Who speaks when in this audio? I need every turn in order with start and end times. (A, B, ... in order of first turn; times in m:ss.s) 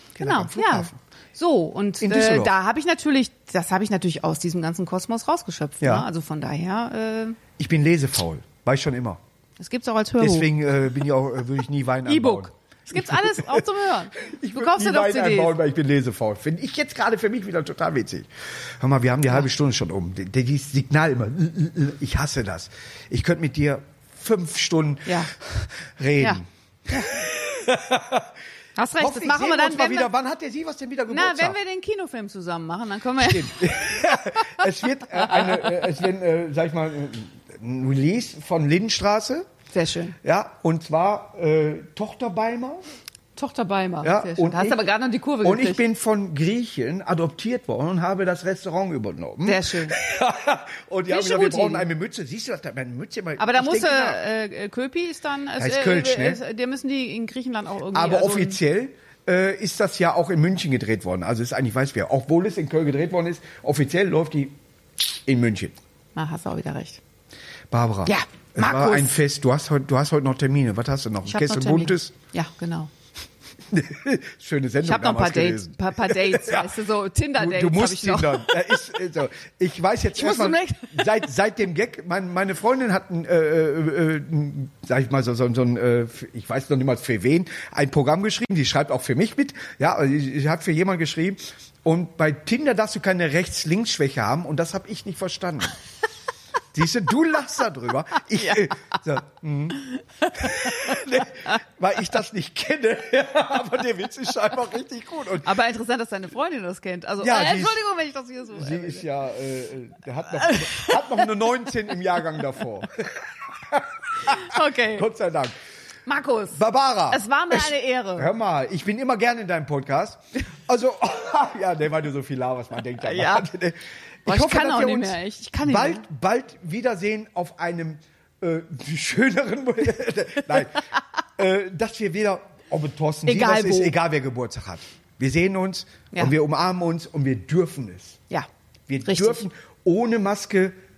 0:00.2-0:01.0 A
0:00.2-0:07.4 B
0:02.0-0:02.5 A
0:05.8-0:06.1 A
0:07.6-0:09.2 A
0:09.6-0:10.5 B
0:10.2-0:28.4 A
0:12.1-0:15.6 B
0:26.2-0:27.1 B
0:28.8-0:30.1 B
0:29.0-0:31.6 A
0:31.1-0:35.9 B
0:33.2-0:39.4 A
0:39.7-0:40.2 B
0:40.2-0:42.8 A
0:43.4-0:45.8 B
0:44.0-0:44.9 A
0:45.4-0:54.2 A
0:49.4-0:50.0 B
0:51.1-0:51.9 B
0:53.4-0:58.6 B
0:55.6-0:56.4 A
0:57.9-1:05.8 A
1:06.2-1:07.0 B
1:07.7-1:12.1 A
1:08.1-1:09.2 B
1:11.2-1:12.9 B
1:13.7-1:16.7 A
1:14.8-1:18.8 B
1:17.4-1:35.8 A
1:20.1-1:21.2 B
1:36.7-1:45.5 A
1:40.2-1:40.9 B
1:45.4-1:49.0 B
1:47.2-1:47.8 A
1:48.6-1:55.6 A
1:50.4-1:51.3 B
1:54.2-1:55.1 B
1:56.1-1:58.3 B
1:56.5-2:18.2 A
2:03.0-2:03.5 B
2:04.3-2:06.0 B
2:13.3-2:13.9 B
2:18.9-2:20.8 A
2:19.0-2:19.4 B